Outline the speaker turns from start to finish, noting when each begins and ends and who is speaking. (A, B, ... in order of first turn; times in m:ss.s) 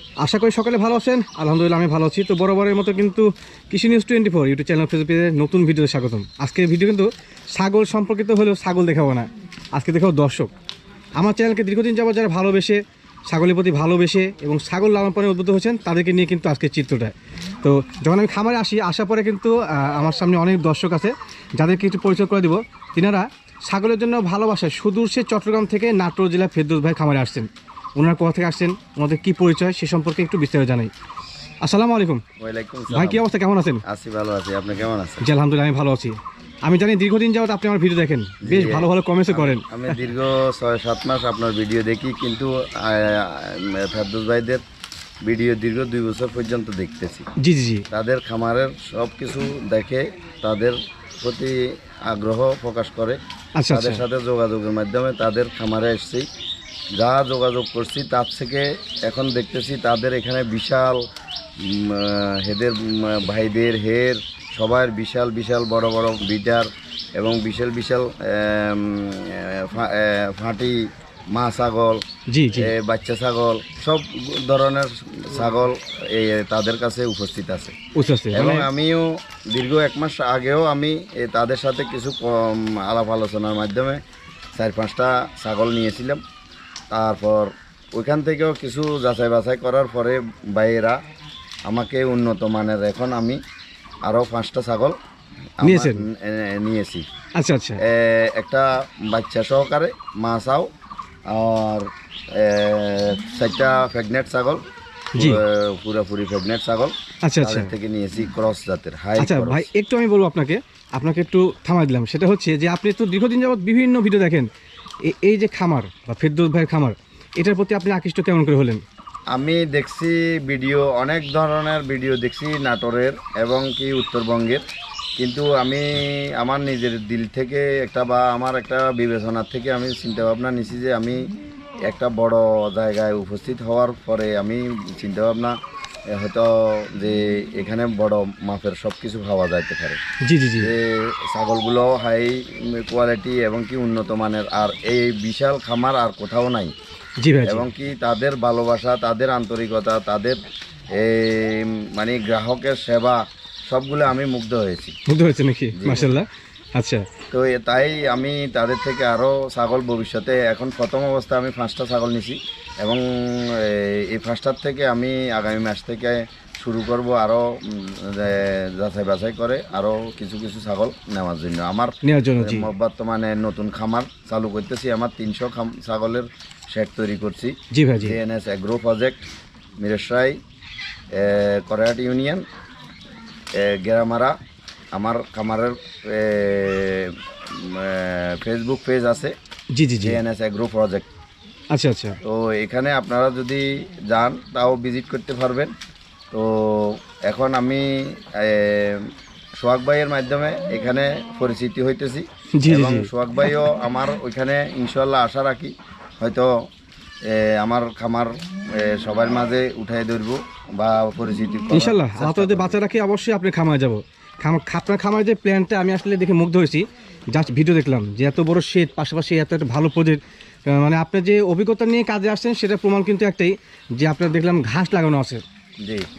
0:00.2-0:10.5 A
0:11.2-0:30.9 A
0:31.6-0:32.2 A
0:32.4-0:33.2 B
0:32.9-0:33.8 A
0:33.9-0:35.2 B
0:35.2-0:39.6 A
0:38.4-0:44.6 B
0:45.2-0:47.2 B
0:47.4-0:47.8 A
0:47.9-0:53.2 B
0:53.6-0:54.0 A
0:53.7-0:56.3 B
0:57.0-1:01.0 B
1:01.6-1:12.0 B
1:12.3-1:12.7 A
1:12.6-1:17.7 B
1:18.0-1:18.7 A
1:18.3-1:24.0 B
1:24.6-1:26.2 B
1:26.9-1:31.0 B
1:31.7-1:33.4 B
1:34.0-1:35.0 B
1:35.6-1:37.0 B
1:35.6-1:36.0 A
1:37.4-1:37.8 A
1:37.8-1:40.7 B
1:41.3-1:44.6 B
1:45.2-1:45.4 A
1:45.2-1:49.7 B
1:47.2-1:47.7 A
1:49.2-1:54.5 A
1:55.1-1:58.8 A
1:59.3-2:04.6 B
2:05.2-2:11.2 B
2:11.9-2:15.5 B
2:16.1-2:20.0 B
2:20.2-2:20.7 A
2:20.6-2:26.7 B
2:27.2-2:27.7 A
2:27.4-2:30.4 B
2:30.9-2:35.0 B
2:35.1-2:37.0 A
2:35.8-2:36.1 B
2:37.3-2:59.2 B
2:52.0-2:52.7 A
2:57.7-2:58.2 A
2:59.8-3:00.4 B
3:01.1-3:02.4 B
3:03.6-3:04.3 B
3:04.9-3:09.3 B
3:09.7-3:10.2 A
3:10.0-3:11.1 B
3:11.7-3:12.2 A
3:12.2-3:15.7 B
3:16.3-3:19.1 B
3:19.6-3:26.5 B
3:22.6-3:23.1 A
3:27.3-3:32.8 B
3:31.7-3:45.4 A
3:45.8-3:46.1 B